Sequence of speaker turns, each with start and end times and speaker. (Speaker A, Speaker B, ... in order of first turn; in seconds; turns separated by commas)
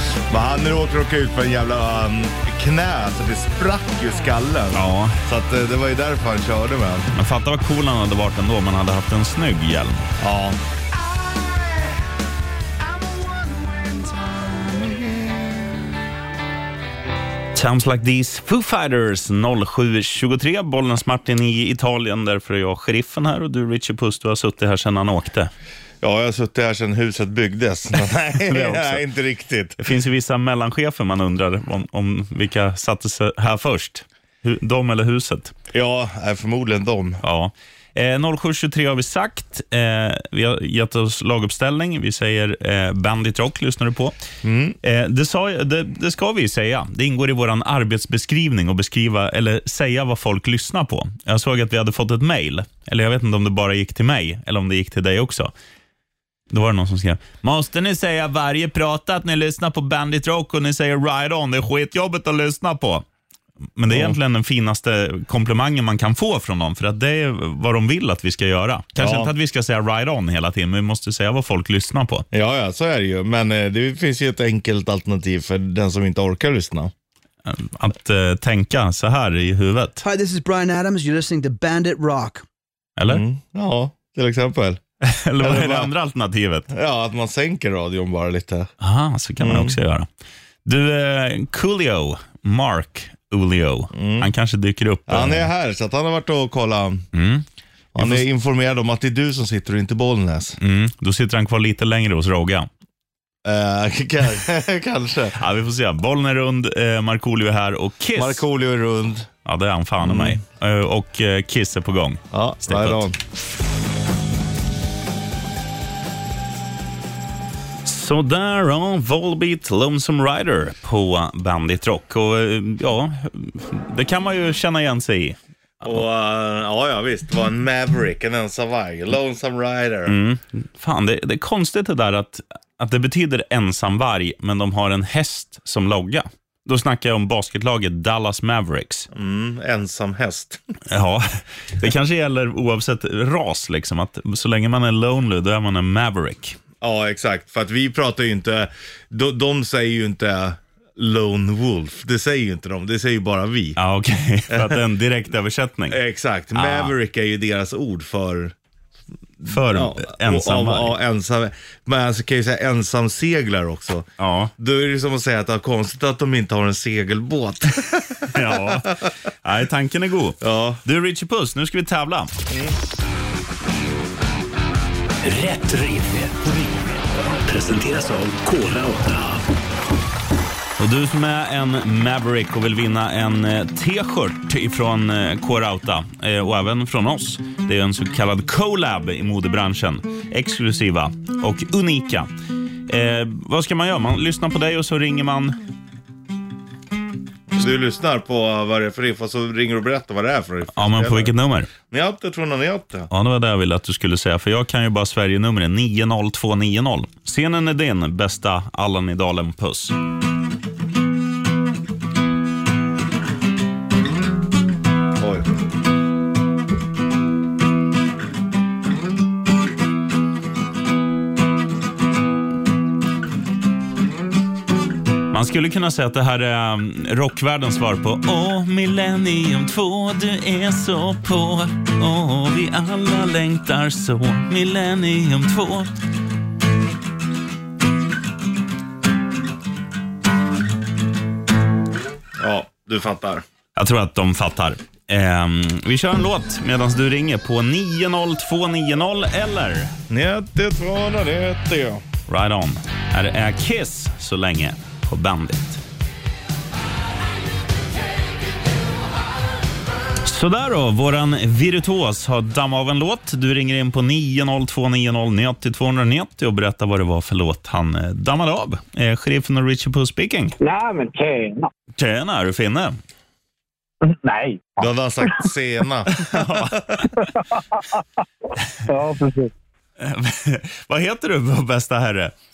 Speaker A: 0.3-7.1, Speaker B: 4.7-5.2, Speaker B: 7.1-10.1, Speaker A: 10.2-10.6, Speaker A: 14.6-15.0, Speaker B: 17.5-25.5, Speaker A: 26.0-29.8, Speaker B: 28.4-29.0, Speaker B: 29.8-35.5, Speaker A: 35.7-37.2, Speaker B: 37.2-44.1, Speaker A: 44.4-44.8, Speaker B: 44.8-55.5, Speaker B: 56.5-63.0, Speaker B: 63.8-72.2, Speaker A: 63.9-64.1, Speaker A: 69.0-69.3, Speaker A: 72.3-76.9, Speaker B: 77.5-80.0, Speaker C: 80.0-82.4, Speaker B: 83.0-83.2, Speaker A: 83.1-84.8, Speaker B: 85.0-86.7, Speaker A: 85.4-85.9, Speaker A: 86.7-88.7, Speaker B: 88.8-90.1, Speaker A: 89.4-89.8, Speaker B: 90.6-95.5, Speaker A: 93.9-94.3, Speaker A: 95.1-97.1, Speaker B: 97.1-97.4, Speaker A: 97.9-100.6, Speaker B: 98.0-98.2, Speaker B: 100.6-102.7, Speaker A: 103.4-105.4, Speaker B: 105.3-108.4, Speaker A: 108.2-109.3, Speaker B: 109.4-113.0, Speaker A: 110.0-110.4, Speaker A: 112.3-113.2, Speaker B: 117.8-126.0, Speaker A: 125.8-130.2, Speaker B: 130.1-139.1, Speaker A: 139.1-140.6, Speaker B: 140.9-146.6, Speaker A: 146.8-153.8, Speaker B: 153.8-156.0, Speaker A: 154.5-154.8, Speaker A: 155.9-158.5, Speaker B: 156.5-156.9, Speaker A: 159.4-168.9, Speaker B: 159.4-161.0, Speaker B: 164.2-164.5, Speaker B: 168.2-172.3, Speaker A: 170.4-170.8, Speaker A: 172.5-172.7, Speaker D: 175.2-179.4, Speaker B: 180.8-192.3, Speaker B: 192.9-195.6, Speaker A: 197.5-203.1, Speaker B: 200.7-201.7, Speaker B: 203.1-209.9, Speaker A: 215.2-215.5, Speaker B: 225.3-235.9, Speaker A: 242.4-243.4, Speaker B: 243.8-249.9, Speaker A: 250.1-252.0, Speaker B: 252.3-255.8, Speaker B: 260.2-270.5, Speaker E: 270.6-271.7, Speaker B: 272.0-273.0, Speaker E: 274.0-275.5, Speaker A: 274.8-276.7, Speaker B: 276.1-277.2, Speaker E: 277.2-278.0, Speaker E: 278.9-279.5, Speaker B: 280.0-282.3